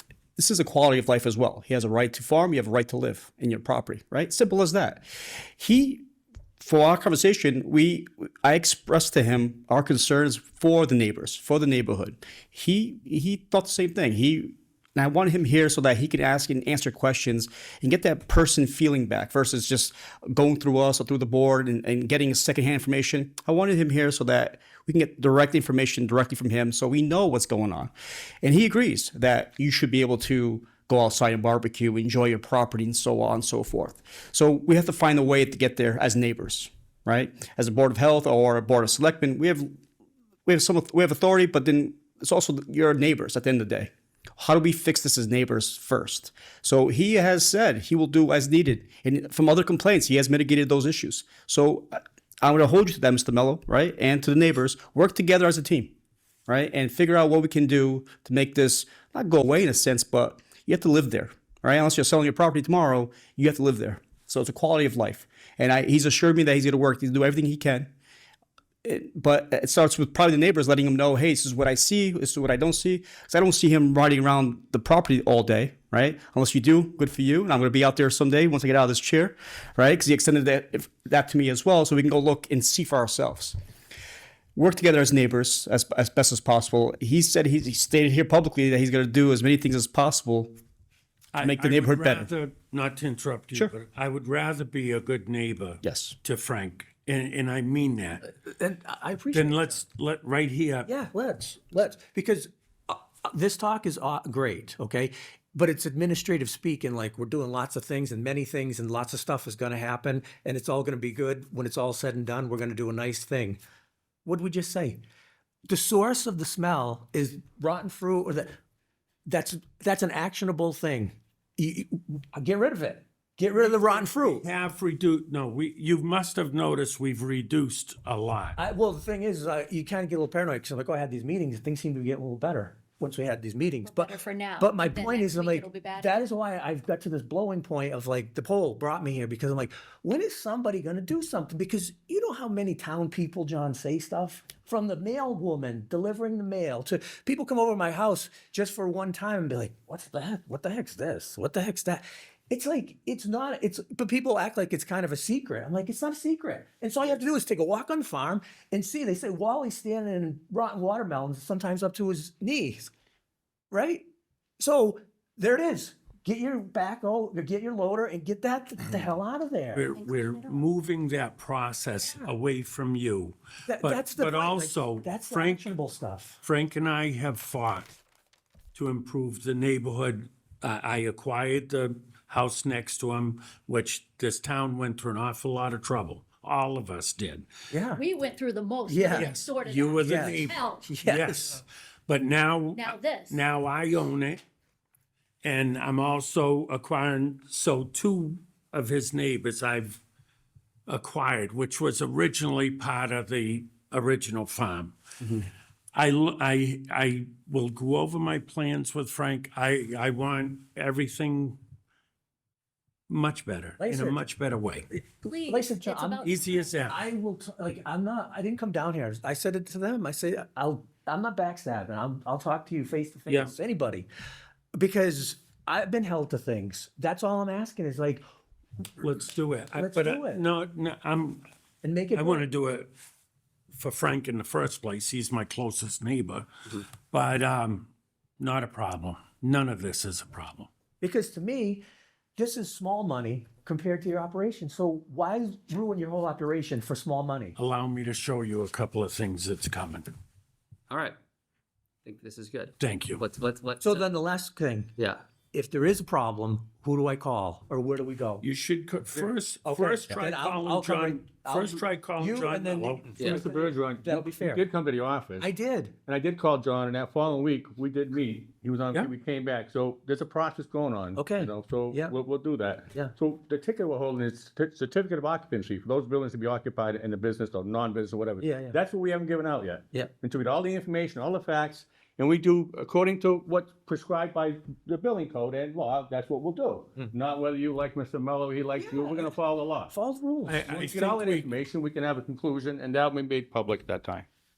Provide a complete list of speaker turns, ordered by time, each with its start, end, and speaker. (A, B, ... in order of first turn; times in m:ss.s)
0:00.4-0:05.0 A
0:05.6-0:06.0 A
0:06.6-0:27.9 A
0:28.4-0:39.8 A
0:40.4-0:55.9 A
0:56.5-1:07.9 A
1:08.8-1:23.6 A
1:24.6-1:30.5 A
1:31.3-1:38.3 B
1:31.4-1:32.3 A
1:35.8-1:36.2 A
1:38.3-1:39.8 C
1:39.3-1:40.9 B
1:40.8-1:53.6 C
1:54.2-1:55.0 C
1:55.7-1:58.6 C
1:59.2-2:04.4 C
2:03.6-2:08.6 B
2:08.6-2:42.9 C
2:13.8-2:16.2 D
2:43.7-2:44.0 C
2:44.6-2:49.9 C
2:49.7-2:55.7 B
2:49.9-2:50.6 D
2:52.0-2:52.3 C
2:53.6-2:56.4 C
2:56.4-2:58.0 B
2:58.7-3:07.4 B
3:07.7-3:08.0 C
3:07.9-3:10.9 D
3:08.8-3:09.3 C
3:09.1-3:14.4 B
3:10.0-3:11.6 C
3:12.7-3:13.4 D
3:15.4-3:20.0 B
3:20.9-3:24.9 B
3:25.9-3:31.6 B
3:33.1-3:34.9 B
3:33.8-3:34.2 C
3:34.9-3:36.3 C
3:35.2-3:36.9 D
3:36.2-3:37.0 B
3:36.8-3:44.1 C
3:43.3-3:43.6 B
3:44.7-3:48.2 C
3:49.0-3:51.4 B
3:49.7-3:50.4 C
3:51.8-3:52.5 C
3:52.1-3:52.9 B
3:53.7-4:00.7 B
4:01.0-4:01.8 C
4:02.4-4:07.6 C
4:07.6-4:10.1 B
4:10.9-4:11.2 E
4:12.0-4:14.1 E
4:12.8-4:13.2 B
4:13.8-4:15.0 C
4:15.0-4:15.2 E
4:15.5-4:18.4 C
4:18.4-4:23.2 B
4:19.1-4:24.6 C
4:23.2-4:25.5 F
4:25.4-4:26.0 C
4:26.0-4:49.9 F
4:31.1-4:32.2 C
4:38.4-4:38.8 C
4:48.8-4:50.6 C
4:50.4-4:51.5 B
4:50.6-4:54.3 F